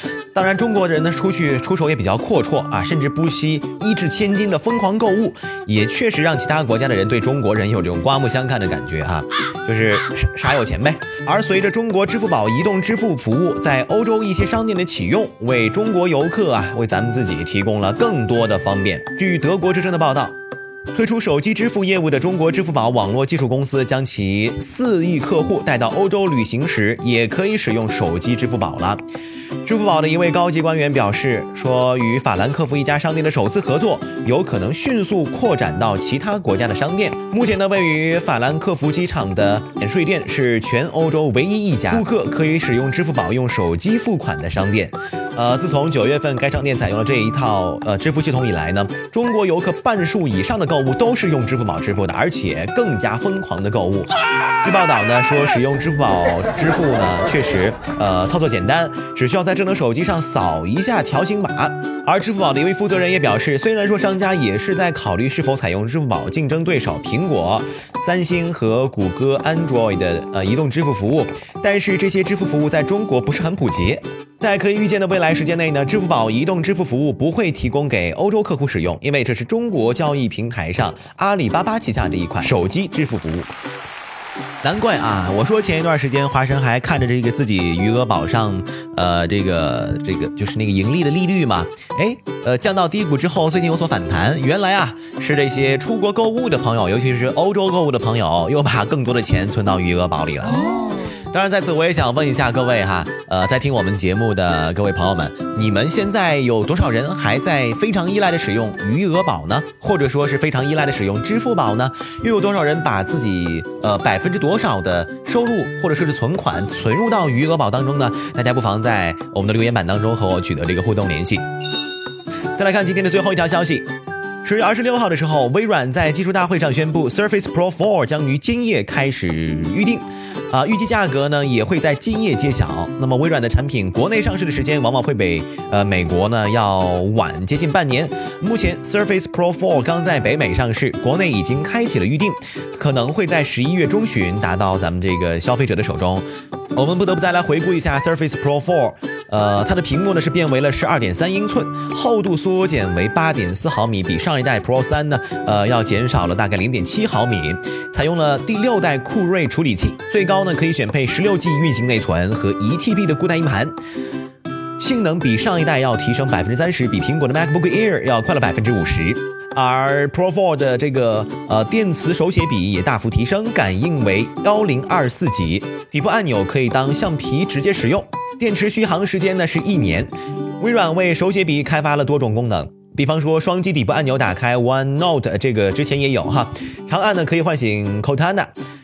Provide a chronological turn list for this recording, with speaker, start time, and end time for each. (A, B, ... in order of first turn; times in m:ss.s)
0:00.3-0:20.4 A
0:20.9-0:29.0 A
0:29.6-0:54.1 A
0:54.6-1:23.5 A
1:24.6-2:01.5 A
2:02.6-2:03.9 A
2:04.4-2:43.8 A
2:44.8-3:08.5 A